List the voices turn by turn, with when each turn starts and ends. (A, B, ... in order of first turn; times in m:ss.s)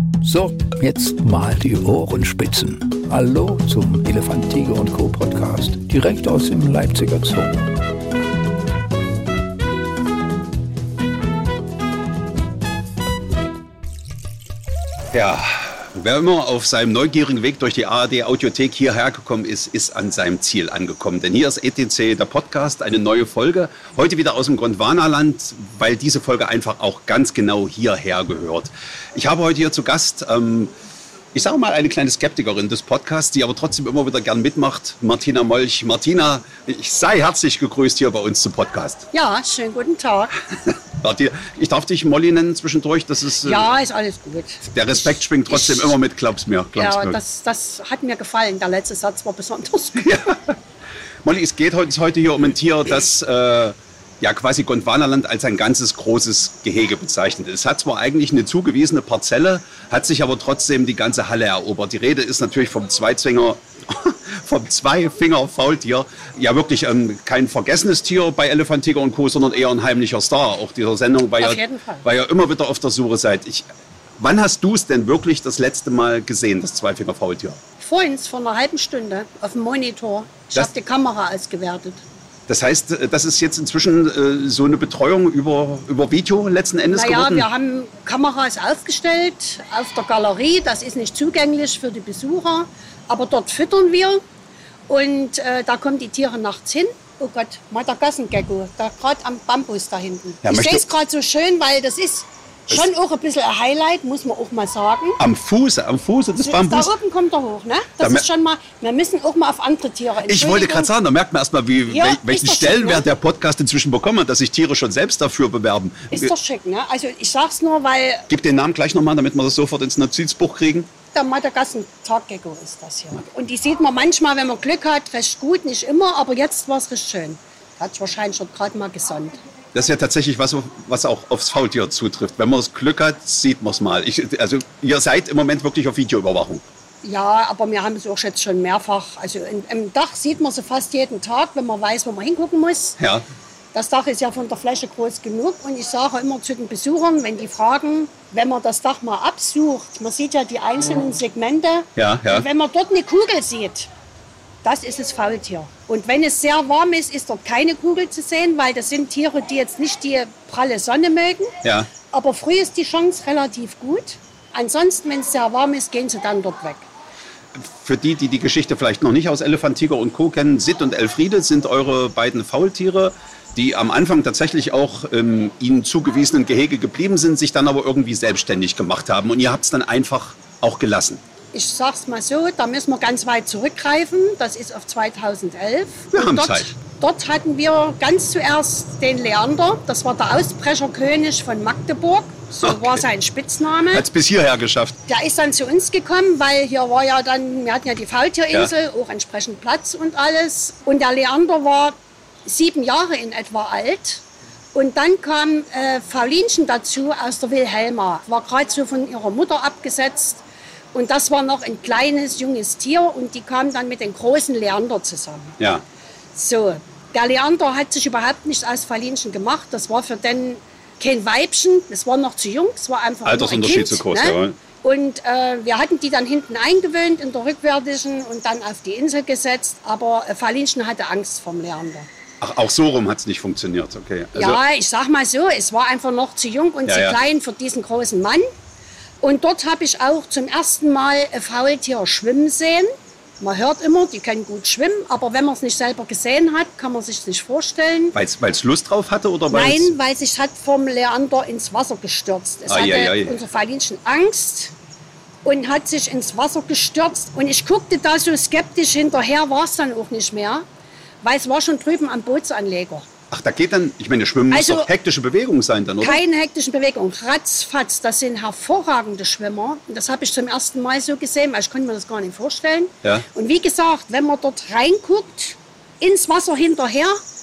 0:00.2-0:07.6 A
0:15.1-0:30.7 B
0:31.3-0:39.1 B
0:39.1-0:40.4 C
0:40.5-0:43.7 B
0:43.4-0:45.9 C
0:44.7-0:47.2 B
0:46.8-0:50.2 C
0:50.0-0:50.6 B
0:51.2-1:17.6 B
1:11.4-1:12.0 C
1:17.8-1:22.0 C
1:22.5-1:27.5 B
1:26.9-1:34.2 C
1:34.9-1:45.2 C
1:40.4-1:40.8 B
1:45.2-1:46.9 B
1:46.4-1:50.9 C
1:50.2-1:56.3 B
1:51.9-1:53.1 C
1:56.1-1:58.3 C
1:58.3-2:00.9 B
2:01.1-2:09.4 C
2:09.7-2:16.6 B
2:17.0-2:23.0 C
2:23.0-2:23.2 B
2:23.7-2:33.9 C
2:32.0-2:32.4 B
2:34.6-2:41.5 C
2:41.6-2:41.9 B
2:42.1-2:46.9 C
2:47.5-3:01.2 B
3:01.5-3:14.0 C
3:06.1-3:06.7 B
3:12.6-3:13.0 B
3:13.9-3:15.0 B
3:15.1-3:30.4 C
3:30.9-3:35.6 C
3:35.6-3:35.8 B
3:36.3-3:52.1 C
3:43.2-3:44.6 B
3:52.4-3:54.6 B
3:54.3-3:58.5 C
3:56.8-3:57.2 B
3:59.2-4:08.1 C
4:08.1-4:09.9 B
4:09.5-4:14.7 C
4:12.7-4:13.4 B
4:15.4-4:20.6 C
4:21.2-4:23.1 C
4:23.3-4:26.2 B
4:24.5-4:24.9 C
4:26.0-4:37.2 C